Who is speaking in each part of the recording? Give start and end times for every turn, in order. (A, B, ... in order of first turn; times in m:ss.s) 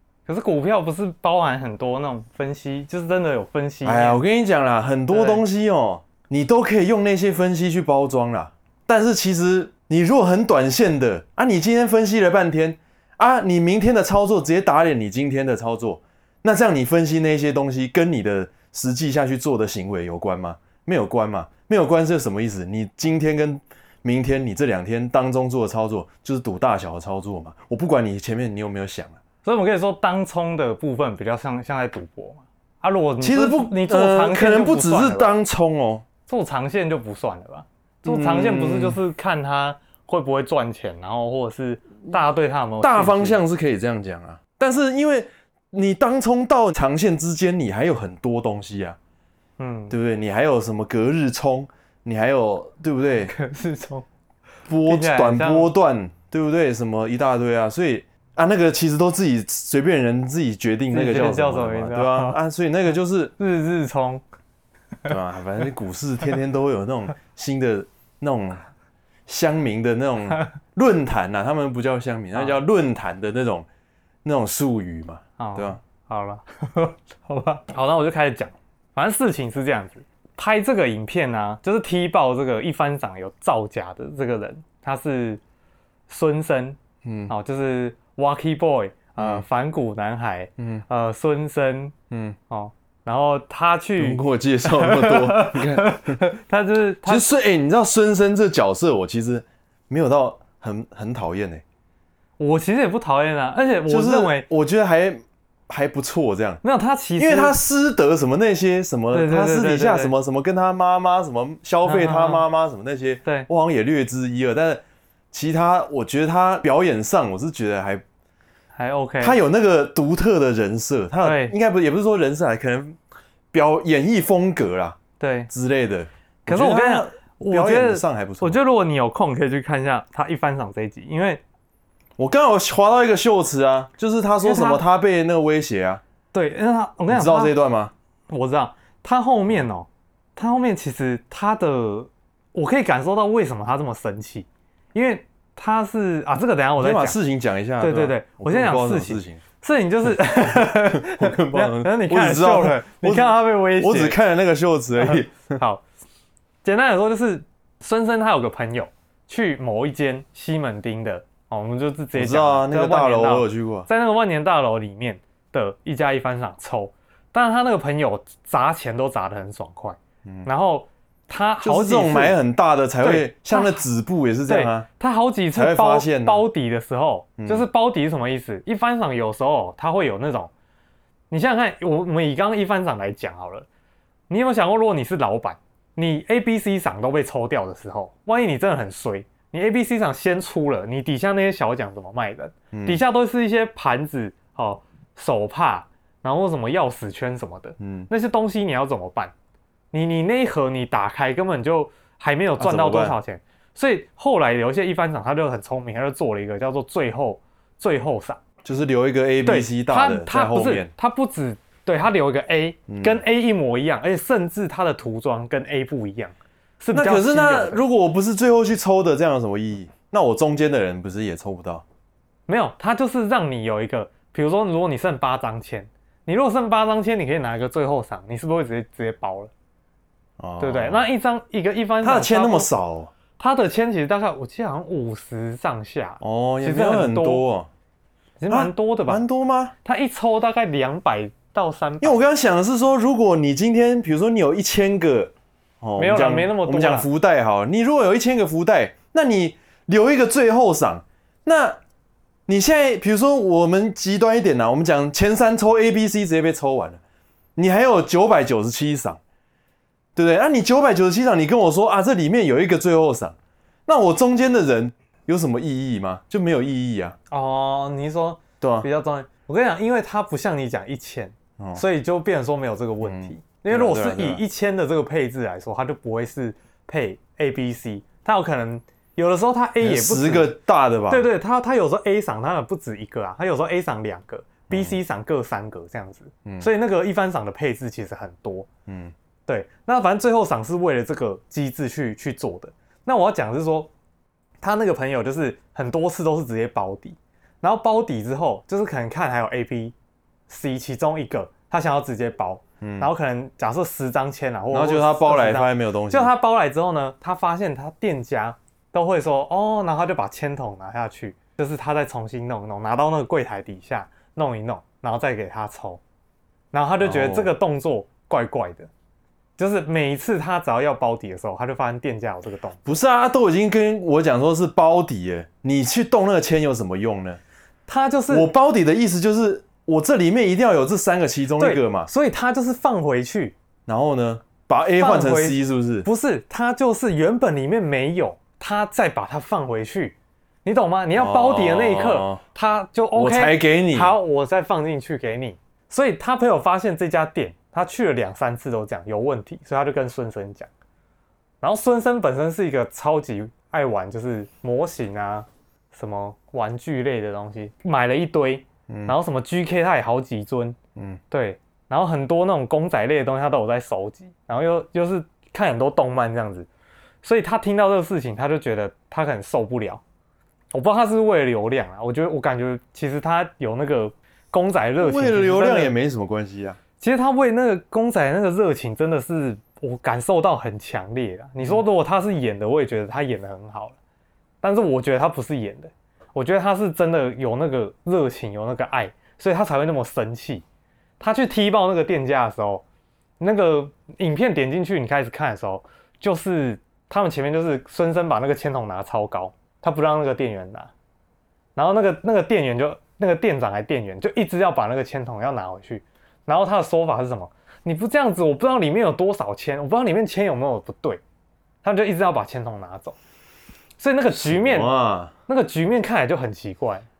0:00.3-0:04.2 A
0:03.8-0:29.2 B
0:05.1-0:05.4 A
0:29.4-0:35.4 A
0:33.2-0:36.0 B
0:36.3-0:43.4 A
0:38.1-0:39.0 B
0:42.8-0:49.0 B
0:49.6-0:50.0 A
0:49.9-0:53.3 B
0:53.2-0:54.1 A
0:54.7-1:03.3 B
0:54.8-0:55.7 A
1:00.9-1:02.4 A
1:03.4-1:04.2 A
1:05.1-1:08.6 B
1:09.3-1:13.7 B
1:12.3-1:12.6 A
1:14.2-1:15.8 B
1:15.4-1:25.4 A
1:26.1-1:26.8 A
1:27.0-1:27.3 B
1:27.3-1:32.0 A
1:29.2-1:29.4 B
1:30.6-1:30.8 B
1:32.1-1:32.4 B
1:32.5-1:37.3 A
1:34.0-1:36.2 B
1:37.0-1:41.6 B
1:42.4-1:44.5 A
1:43.9-1:46.6 B
1:46.6-1:47.6 A
1:47.2-1:58.0 B
1:49.1-1:50.1 A
1:51.8-1:52.4 A
1:58.8-1:59.4 A
1:59.2-2:03.0 B
2:01.2-2:01.5 A
2:03.5-2:08.6 B
2:05.2-2:05.5 A
2:06.5-2:11.4 A
2:12.2-2:16.0 B
2:14.4-2:14.8 A
2:16.3-2:17.6 A
2:17.1-2:17.9 B
2:18.3-2:27.2 A
2:26.8-2:29.4 B
2:27.8-2:34.2 A
2:30.3-2:35.6 B
2:35.0-2:35.8 A
2:36.6-2:52.4 A
2:42.2-2:43.9 B
2:51.6-2:54.9 B
2:53.0-2:53.8 A
2:54.5-3:00.5 A
2:55.5-2:56.4 B
2:57.4-2:57.6 B
3:01.3-3:03.7 A
3:04.3-3:19.3 A
3:12.7-3:13.0 B
3:17.8-3:18.1 B
3:19.9-3:28.4 A
3:22.6-3:23.2 B
3:28.6-3:30.9 B
3:29.4-3:37.8 A
3:32.9-3:33.2 B
3:36.9-3:41.8 B
3:42.5-3:49.5 A
3:50.4-3:51.0 B
3:50.6-3:52.7 A
3:52.0-3:53.1 B
3:53.4-3:57.5 A
3:56.2-3:57.7 B
3:58.4-3:59.2 A
3:58.5-3:59.7 B
3:59.8-4:02.2 A
4:02.0-4:11.8 B
4:06.0-4:07.1 A
4:12.5-4:17.0 B
4:17.6-4:19.2 B
4:20.2-4:23.4 B
4:23.9-4:27.2 B
4:27.3-4:40.6 A
4:28.6-4:28.9 B
4:33.0-4:34.4 B
4:39.8-4:41.3 B
4:41.1-4:48.7 A
4:44.7-4:45.0 B
4:48.9-4:49.1 B
4:49.5-4:53.9 A
4:54.6-4:59.9 A
5:00.5-5:16.0 A
5:02.8-5:03.1 B
5:04.7-5:06.3 B
5:16.7-5:18.9 A
5:17.0-5:17.5 B
5:19.6-5:22.8 A
5:22.8-5:27.4 B
5:27.9-5:28.5 A
5:28.3-5:32.1 B
5:31.6-5:33.6 A
5:33.9-5:36.1 B
5:35.0-5:50.7 A
5:41.2-5:42.4 B
5:43.1-5:44.1 B
5:51.6-6:00.8 A
5:58.9-5:59.2 B
6:01.0-6:01.2 B
6:01.3-6:06.7 A
6:07.2-6:10.0 A
6:10.7-6:15.9 A
6:15.0-6:16.8 B
6:17.0-6:24.0 A
6:24.6-6:30.6 A
6:31.2-6:32.8 A
6:33.4-6:40.9 A
6:41.8-6:51.2 A
6:51.8-6:53.2 A
6:54.0-6:54.9 A
6:54.3-6:55.3 B
6:55.5-6:57.1 A